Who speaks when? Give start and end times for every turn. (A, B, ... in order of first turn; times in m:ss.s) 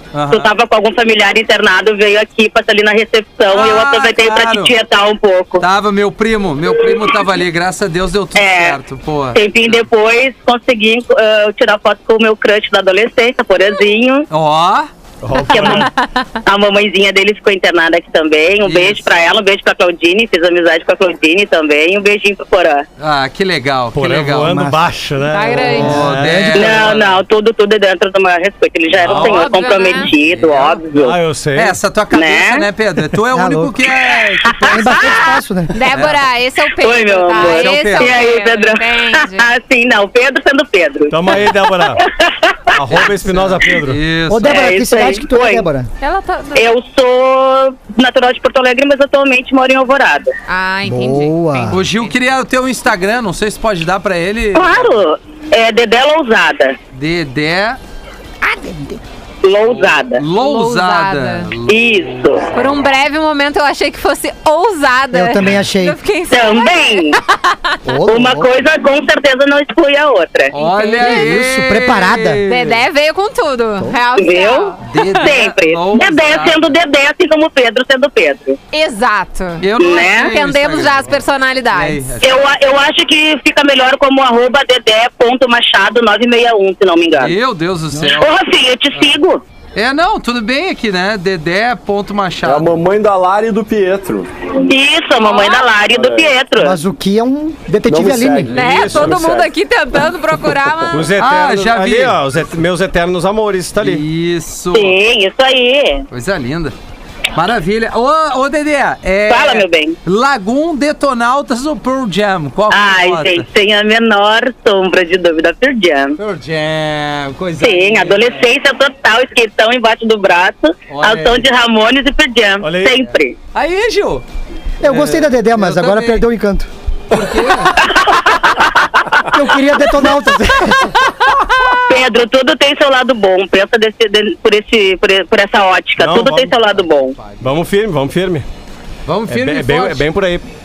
0:00.1-0:00.5 A
0:00.3-0:05.6 B
0:03.5-0:04.7 A
0:05.6-0:09.8 A
0:08.3-0:08.8 B
0:09.3-0:14.3 B
0:14.3-0:14.9 A
0:15.2-0:15.9 C
0:15.4-0:16.4 D
0:16.4-0:22.8 B
0:18.6-0:19.1 A
0:23.0-0:24.8 A
0:23.9-0:26.8 C
0:25.3-0:26.0 D
0:25.6-0:27.2 A
0:26.5-0:31.2 B
0:29.0-0:30.8 A
0:29.1-0:30.1 D
0:30.8-0:31.8 C
0:31.5-0:35.2 A
0:32.1-0:32.6 B
0:33.3-0:33.8 E
0:34.6-0:35.8 E
0:35.7-0:39.5 D
0:35.9-0:36.2 A
0:36.8-0:42.7 B
0:37.4-0:38.2 A
0:41.1-0:42.0 C
0:42.7-0:44.0 C
0:42.9-0:44.6 A
0:44.3-0:45.9 E
0:44.4-0:45.6 B
0:46.0-0:46.7 D
0:46.6-0:50.3 B
0:50.5-0:51.8 D
0:50.8-0:51.8 E
0:51.7-0:55.0 A
0:54.5-0:56.8 B
0:56.9-0:57.8 A
0:58.4-0:59.0 E
0:59.4-1:00.2 B
0:59.7-1:02.7 A
1:00.4-1:01.5 D
1:01.7-1:02.5 B
1:02.5-1:07.5 D
1:05.1-1:06.0 E
1:06.3-1:07.2 B
1:07.8-1:08.5 E
1:08.0-1:10.6 B
1:10.5-1:12.8 A
1:10.6-1:11.4 D
1:11.0-1:12.4 E
1:12.5-1:15.2 D
1:14.2-1:18.6 B
1:14.8-1:16.8 A
1:18.7-1:22.1 D
1:19.6-1:22.4 A
1:19.8-1:20.3 B
1:22.2-1:27.4 B
1:27.2-1:28.3 A
1:28.2-1:29.4 B
1:29.7-1:32.7 A
1:32.4-1:34.3 F
1:34.5-1:36.8 B
1:35.2-1:35.7 D
1:35.9-1:36.4 F
1:36.6-1:38.5 E
1:37.8-1:39.5 F
1:38.5-1:41.1 D
1:38.6-1:39.1 A
1:40.9-1:44.0 C
1:41.2-1:42.2 A
1:43.8-1:45.0 A
1:44.7-1:46.0 B
1:46.1-1:46.7 A
1:47.3-1:53.5 A
1:49.3-1:50.0 B
1:52.7-1:56.2 B
1:56.2-1:58.5 A
1:57.6-2:03.4 B
2:00.9-2:01.5 A
2:02.6-2:03.0 C
2:03.5-2:04.2 A
2:04.8-2:06.7 E
2:04.8-2:06.2 A
2:07.1-2:07.9 A
2:07.8-2:08.6 B
2:09.3-2:11.0 E
2:11.2-2:11.8 D
2:11.9-2:17.2 B
2:16.0-2:16.6 C
2:16.8-2:17.4 A
2:17.4-2:18.4 C
2:19.0-2:20.0 A
2:19.3-2:20.4 C